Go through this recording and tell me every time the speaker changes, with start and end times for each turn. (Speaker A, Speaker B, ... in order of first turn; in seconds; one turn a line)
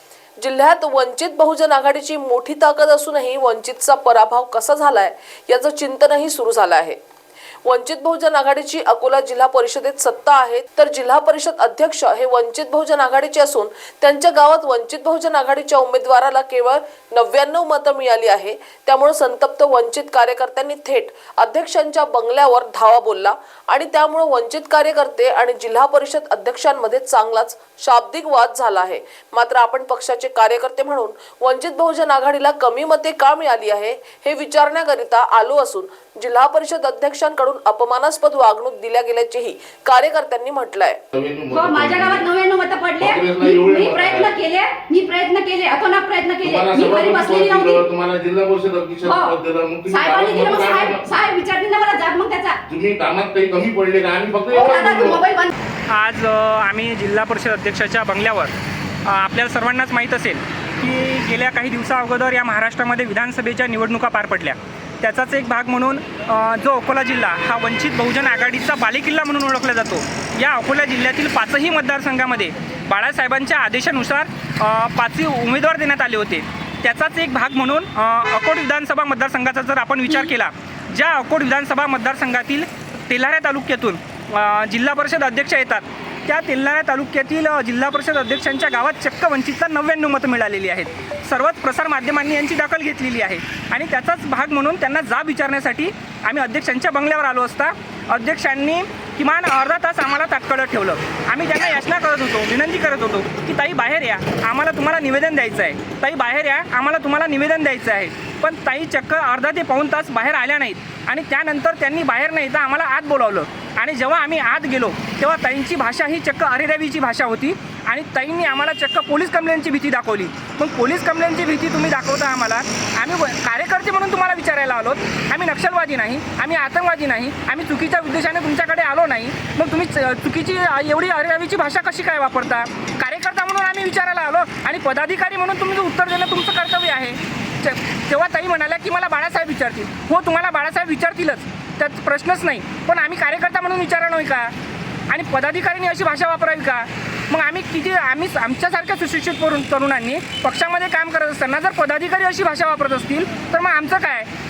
Speaker A: 0.4-7.0
Speaker A: 7.7-41.0
Speaker B: 41.1-42.3
Speaker C: 41.5-47.8
Speaker B: 43.0-44.3
Speaker B: 46.4-51.1
Speaker C: 49.1-49.3
Speaker C: 49.9-52.6
Speaker B: 52.7-55.2
Speaker C: 54.5-55.5
Speaker D: 55.9-58.5
Speaker D: 59.0-144.5
Speaker D: 145.1-154.3